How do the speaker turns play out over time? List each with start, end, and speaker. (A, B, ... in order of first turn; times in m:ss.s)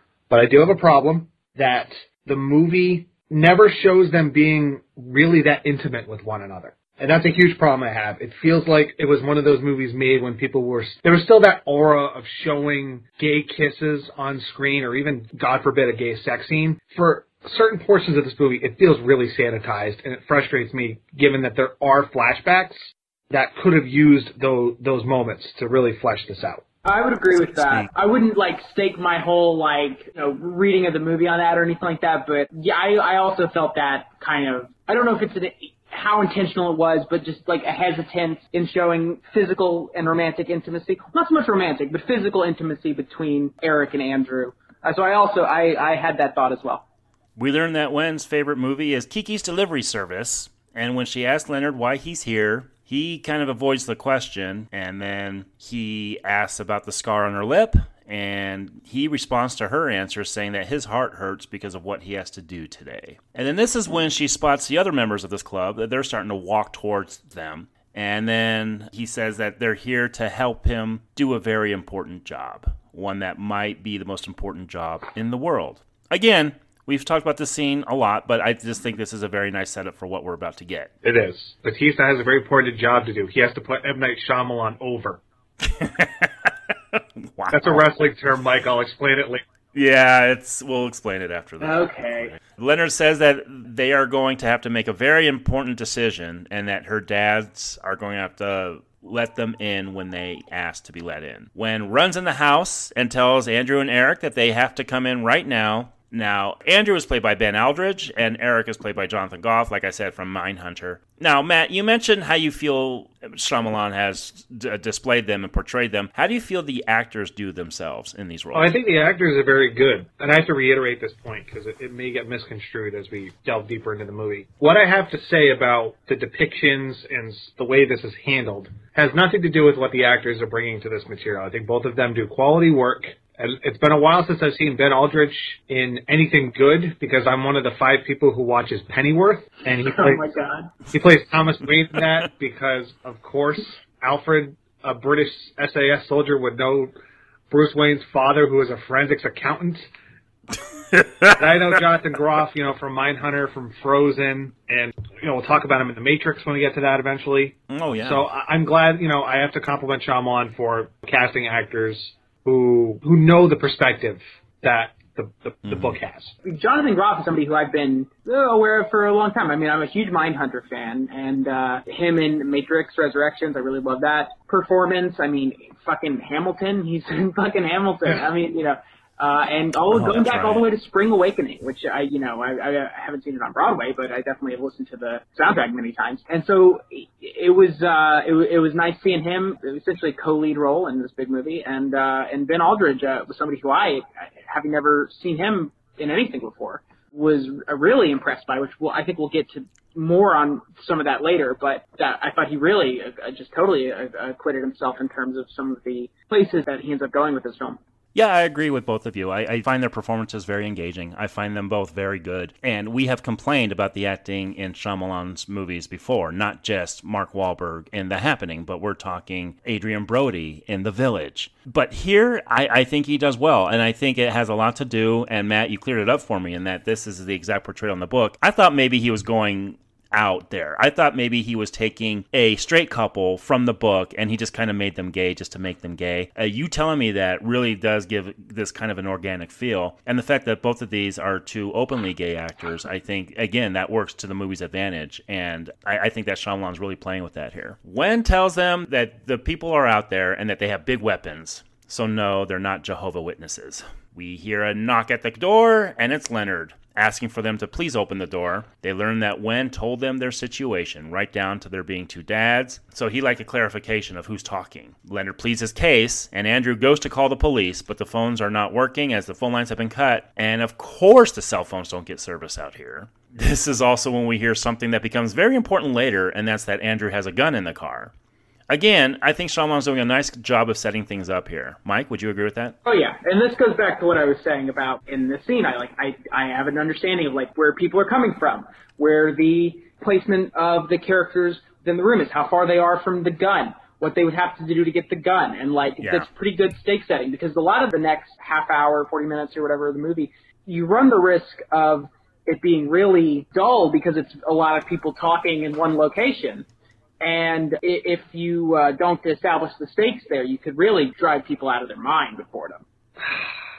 0:00.3-0:26.6 A
0:26.8-0:46.8 B
0:27.4-0:27.9 C
0:47.4-1:20.9 C
1:21.0-1:25.2 A
1:25.6-1:27.8 C
1:27.5-1:29.4 A
1:29.7-1:58.7 C
1:31.6-1:32.3 B
1:58.5-2:20.2 A
2:19.8-2:20.7 B
2:20.9-2:26.9 A
2:27.5-2:29.8 A
2:30.9-2:31.4 C
2:31.4-2:46.4 A
2:37.7-2:38.3 C
2:45.7-2:46.0 C
2:46.5-3:27.8 B
2:59.9-3:00.6 C
3:28.2-4:38.1 C
4:38.7-4:42.8 C
4:42.8-5:06.7 B
4:56.0-4:56.3 C
5:07.2-5:12.8 B